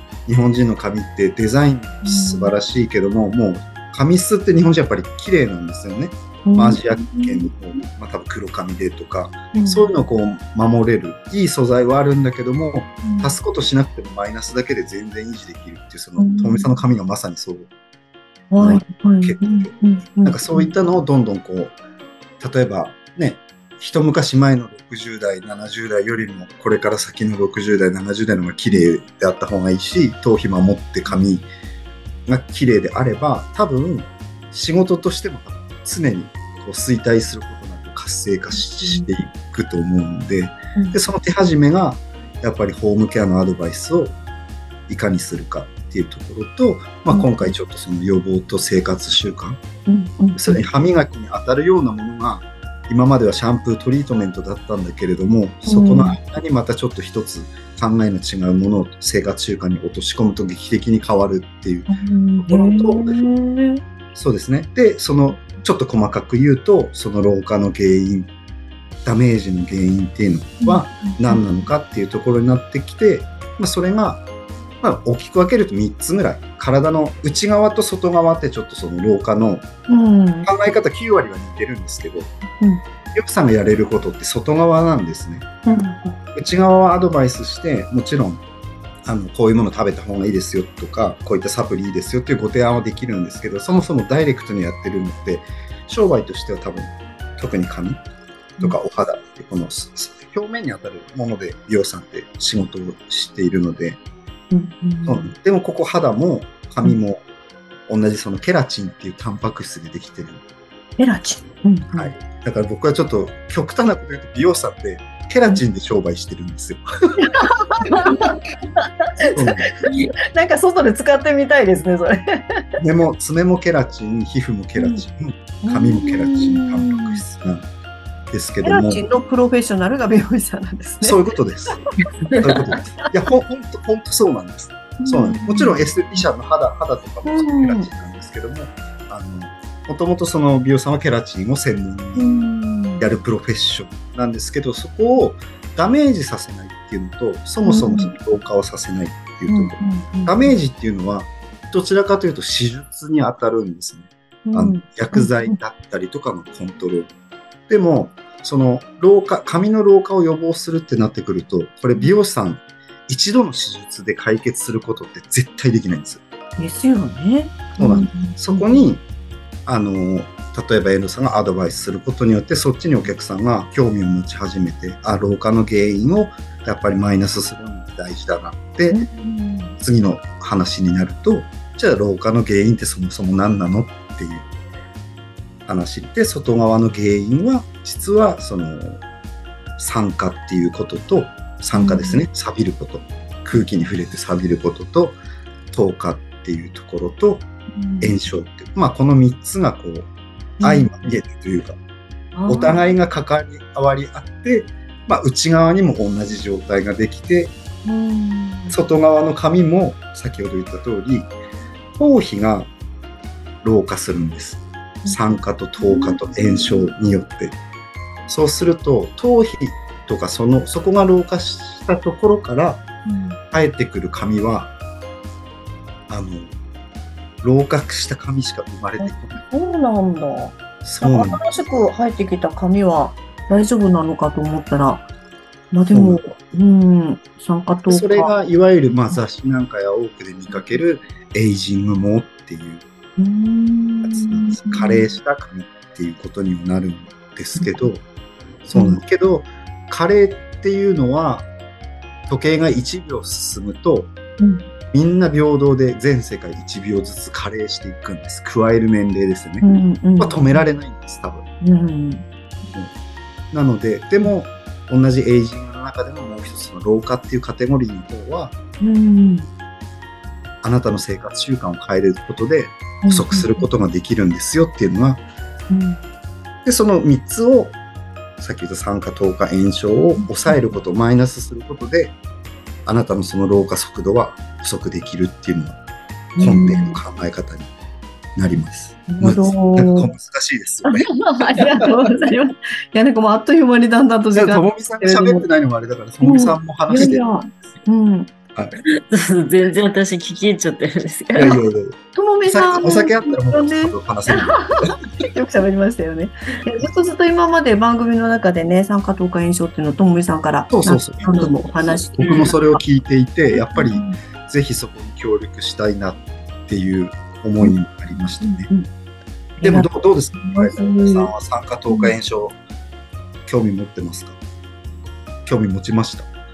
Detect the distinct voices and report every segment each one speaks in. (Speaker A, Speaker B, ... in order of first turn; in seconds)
Speaker A: 0.3-17.7, 18.6-21.8, 22.4-31.5, 32.3-44.2, 44.9-49.6, 50.4-63.1, 64.1-68.3, 69.0-74.2, 74.8-79.7, 80.5-82.3, 83.2-85.5, 86.3-88.4, 89.0-98.0, 98.6-104.0, 105.0-107.2, 107.9-110.4, 111.9-116.8, 119.3-119.9, 122.8-127.7, 128.3-129.0, 131.0-131.8, 132.4-157.1, 157.7-166.2, 167.8-169.0, 169.7-179.0, 179.8-184.5, 185.7-189.0, 189.8-195.2, 195.7-197.5, 198.0-200.1, 200.6-201.8, 202.5-207.5, 208.7-211.3, 211.9-212.7, 213.6-217.6, 218.3-222.8, 223.5-224.7, 226.1-226.6, 227.4-229.4, 230.8-231.4, 235.9-236.5, 237.9-242.8, 244.0-248.0, 248.6-251.5, 252.3-254.1, 254.9-261.4, 263.5-268.5, 270.6-275.2, 276.6-277.8, 278.4-282.2, 282.9-285.8, 286.4-287.7, 288.4-291.0, 294.3-297.2, 301.4-304.6, 310.7-318.7, 319.6-322.6, 323.5-324.4, 325.4-326.3
Speaker B: 2.0-2.5, 6.5-7.5, 9.5-10.0, 13.0-13.4, 16.2-16.7, 18.5-20.7, 38.5-39.1, 47.1-47.5, 49.9-50.6, 55.7-56.2, 61.9-63.8, 70.6-71.5, 79.9-80.5, 85.7-86.2, 104.5-105.2, 111.0-112.1, 117.2-118.4, 119.1-122.6, 124.8-125.0, 125.6-127.2, 128.6-131.2, 135.0-135.9, 137.2-137.9, 142.2-143.1, 147.6-148.1, 149.5-150.6, 154.4-155.6, 166.6-168.9, 178.9-179.8, 191.7-192.2, 197.8-198.2, 200.6-200.9, 202.3-202.9, 207.8-208.8, 215.0-216.7, 223.1-223.4, 229.0-235.1, 235.7-238.3, 240.5-240.8, 243.2-245.1, 248.7-249.0, 254.4-254.7, 259.6-260.7, 261.6-262.2, 268.8-269.5, 273.0-273.7, 275.7-276.0, 280.2-280.7, 286.4-287.0, 289.1-290.1, 290.9-295.5, 296.2-298.3, 302.1-312.8, 313.5-314.2, 317.6-318.9, 319.6-321.3, 321.9-322.1
Speaker C: 299.1-301.6, 311.8-312.5